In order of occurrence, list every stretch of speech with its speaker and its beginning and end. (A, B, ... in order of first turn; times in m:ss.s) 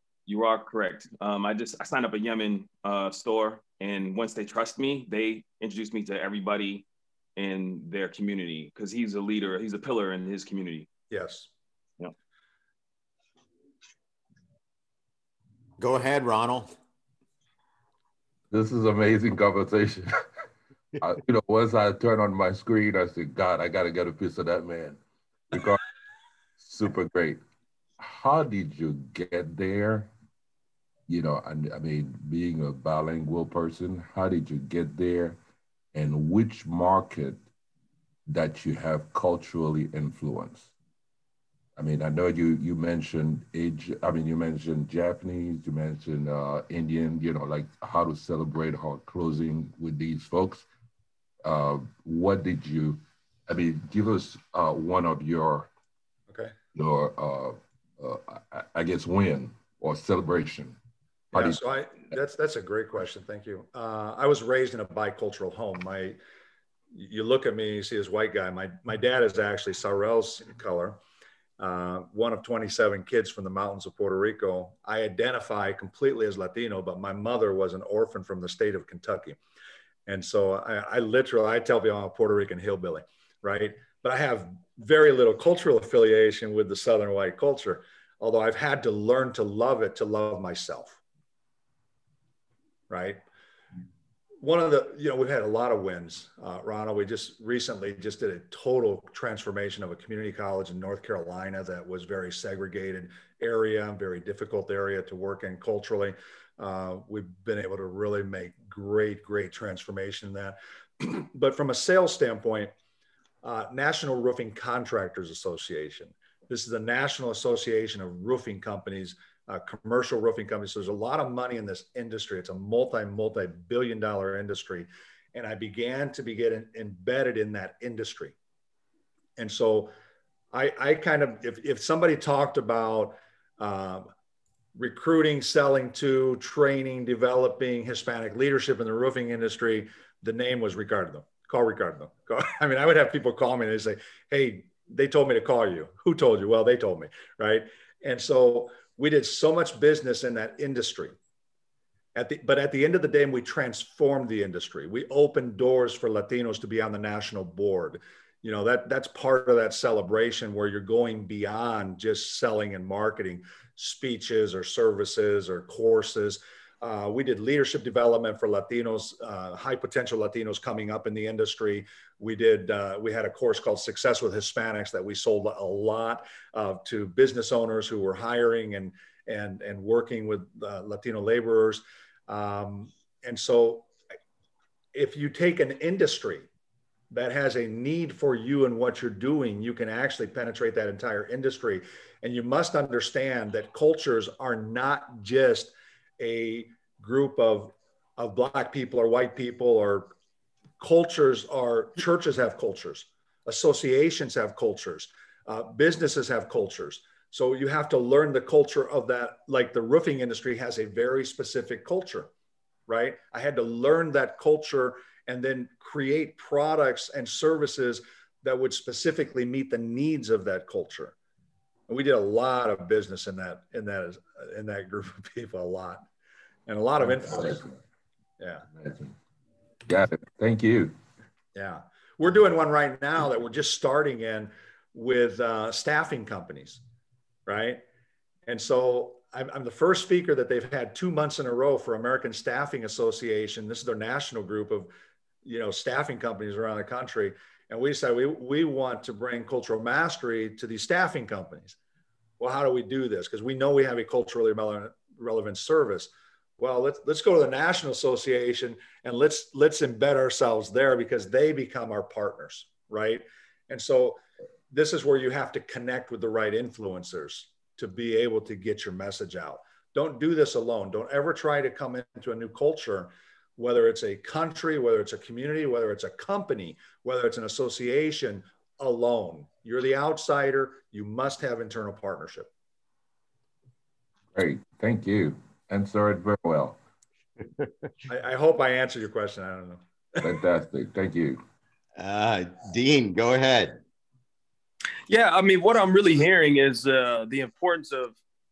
0:00.3-0:10.9 A
0:11.1-0:11.5 B
0:15.8-0:16.7 C
0:18.5-0:20.2 D
0:21.0-0:25.8 D
0:26.6-0:27.4 D
0:28.0-0:30.1 D
0:31.1-0:35.4 D
0:35.9-0:37.4 D
0:38.3-0:40.7 D
0:41.8-0:50.7 D
0:51.4-0:55.7 D
0:56.3-0:56.6 B
0:56.8-1:00.8 D
1:01.3-1:01.6 D
1:01.4-1:06.2 B
1:06.9-1:11.0 B
1:11.6-1:19.4 B
1:20.1-1:31.0 B
1:32.9-1:33.2 B
1:34.4-1:52.7 B
1:53.4-2:08.4 B
2:09.4-2:09.9 B
2:10.5-2:14.1 B
2:14.8-2:31.2 B
2:32.2-3:03.9 B
3:04.9-3:06.5 B
3:07.1-3:20.1 B
3:20.8-3:32.3 B
3:32.9-3:41.2 B
3:41.9-3:46.0 B
3:46.7-3:47.6 B
3:47.0-3:47.8 D
3:48.4-3:48.6 B
3:48.7-3:49.2 D
3:49.9-3:51.0 D
3:51.6-3:56.8 B
3:57.5-3:57.8 B
3:58.5-4:04.9 B
4:05.4-4:11.8 B
4:12.4-4:24.2 B
4:24.7-4:42.5 B
4:44.3-4:46.8 D
4:48.1-4:50.2 B
4:50.2-4:51.4 D
4:52.0-4:53.8 C
4:55.1-4:58.2 E